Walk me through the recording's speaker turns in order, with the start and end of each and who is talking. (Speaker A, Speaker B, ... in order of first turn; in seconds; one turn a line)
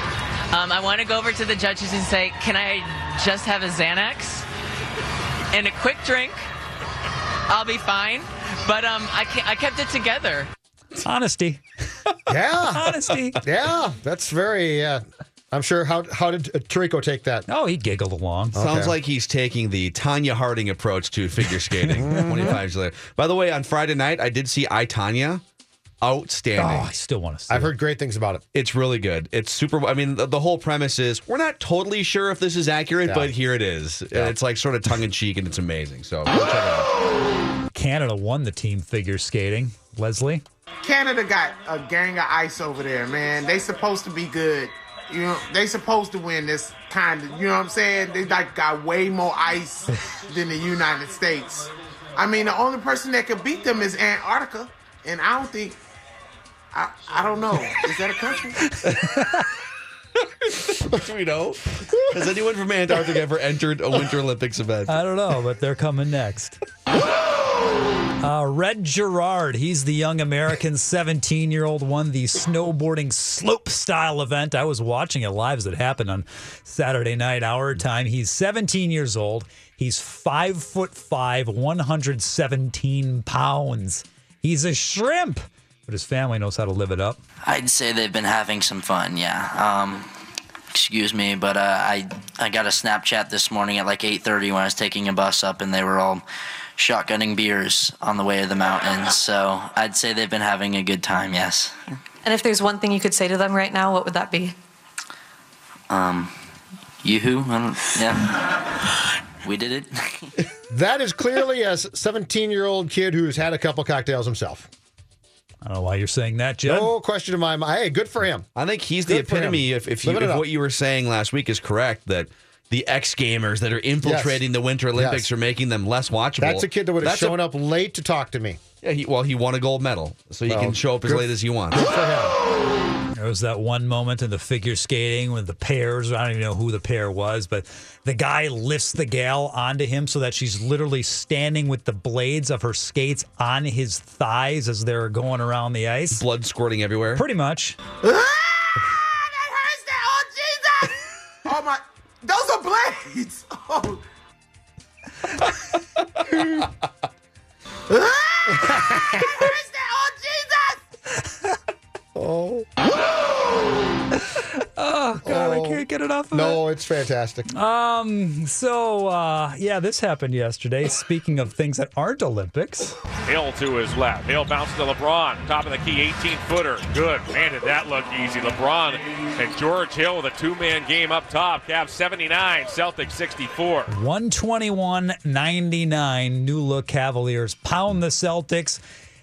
Speaker A: 0.5-4.5
Speaker A: 5.5-6.4
Speaker A: 7.5-10.5
Speaker B: 11.0-11.6
Speaker C: 12.3-17.5
Speaker B: 12.7-13.4
Speaker B: 17.5-18.6
Speaker C: 18.5-19.0
Speaker D: 18.6-25.4
Speaker B: 21.8-22.6
Speaker C: 21.9-22.6
Speaker D: 26.0-26.9
Speaker B: 26.6-27.7
Speaker C: 27.5-28.4
Speaker D: 28.5-36.9
Speaker C: 33.1-33.3
Speaker B: 37.7-40.4
Speaker E: 40.8-55.8
Speaker E: 56.7-58.8
Speaker B: 58.8-59.4
Speaker D: 60.5-65.0
Speaker B: 64.9-66.6
Speaker B: 68.2-87.2
Speaker F: 87.4-90.1
Speaker F: 90.7-96.2
Speaker F: 96.8-102.0
Speaker G: 102.2-104.5
Speaker F: 105.9-106.3
Speaker F: 107.0-108.4
Speaker F: 109.4-110.3
Speaker C: 110.7-114.7
Speaker B: 115.6-116.9
Speaker C: 116.7-118.5
Speaker D: 118.6-127.4
Speaker C: 119.1-120.5
Speaker C: 124.0-124.4
Speaker C: 124.9-125.3
Speaker C: 126.4-128.6
Speaker D: 128.8-131.9
Speaker C: 130.5-132.4
Speaker B: 133.2-146.2
Speaker D: 146.2-147.2
Speaker B: 147.2-147.8
Speaker E: 148.0-154.0
Speaker E: 157.9-160.8
Speaker C: 158.5-159.4
Speaker C: 162.2-162.7
Speaker B: 164.5-166.6
Speaker C: 165.2-167.5
Speaker B: 167.5-172.9
Speaker H: 173.3-183.9
Speaker B: 183.9-188.8